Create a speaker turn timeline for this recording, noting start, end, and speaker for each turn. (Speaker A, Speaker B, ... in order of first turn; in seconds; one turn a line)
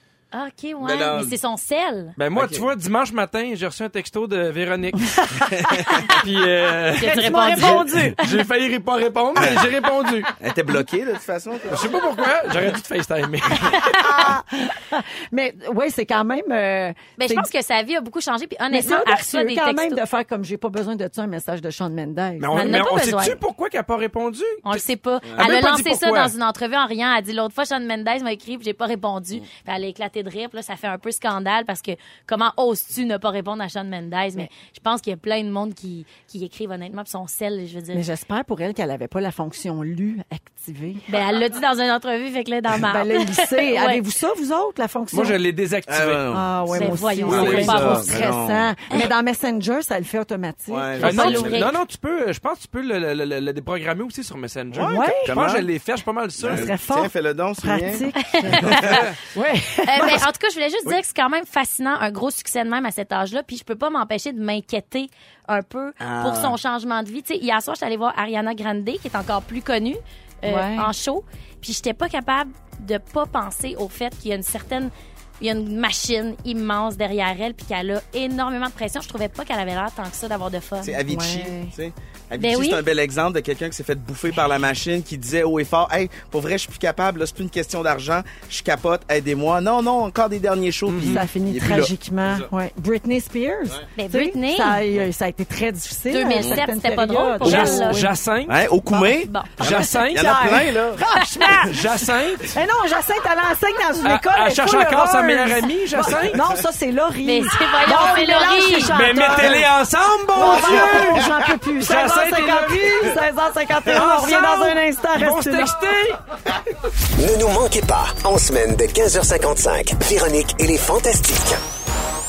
Speaker A: 0.3-2.1
Speaker B: 0.8-1.4
Speaker C: 2.2-5.5
Speaker B: 2.3-2.7
Speaker B: 5.5-6.0
Speaker D: 5.8-6.2
Speaker C: 6.1-10.3
Speaker A: 7.0-8.4
Speaker D: 7.0-8.2
Speaker B: 9.4-9.6
Speaker B: 10.4-11.9
Speaker C: 11.7-13.8
Speaker A: 13.7-14.1
Speaker D: 13.8-17.5
Speaker A: 17.2-20.0
Speaker D: 18.7-22.7
Speaker C: 22.4-24.8
Speaker A: 22.5-23.4
Speaker A: 24.6-38.1
Speaker B: 25.2-25.5
Speaker C: 25.4-26.3
Speaker D: 37.9-41.0
Speaker A: 41.1-44.0
Speaker D: 42.9-45.4
Speaker C: 45.1-46.2
Speaker B: 45.9-48.7
Speaker D: 46.3-51.4
Speaker A: 46.7-48.2
Speaker C: 47.3-48.3
Speaker B: 50.7-51.7
Speaker C: 51.0-56.7
Speaker A: 51.0-51.8
Speaker B: 54.7-55.7
Speaker D: 54.9-55.3
Speaker B: 56.4-58.0
Speaker D: 56.5-60.2
Speaker A: 58.2-59.0
Speaker B: 58.6-59.0
Speaker C: 58.7-59.2
Speaker A: 59.9-81.0
Speaker B: 66.0-66.6
Speaker D: 70.4-70.9
Speaker B: 80.8-92.5
Speaker D: 81.1-81.7
Speaker A: 82.4-82.8
Speaker C: 90.9-91.2
Speaker D: 91.0-98.1
Speaker A: 94.0-94.8
Speaker A: 96.1-98.1
Speaker C: 97.4-98.6
Speaker B: 98.5-101.0
Speaker A: 99.0-99.7
Speaker C: 99.6-100.4
Speaker D: 99.9-101.8
Speaker C: 101.2-102.6
Speaker D: 102.5-109.7
Speaker C: 104.0-106.4
Speaker A: 107.2-108.9
Speaker C: 108.9-111.2
Speaker D: 110.3-115.7
Speaker B: 110.5-111.3
Speaker C: 111.8-113.2
Speaker C: 113.9-116.2
Speaker E: 117.2-121.6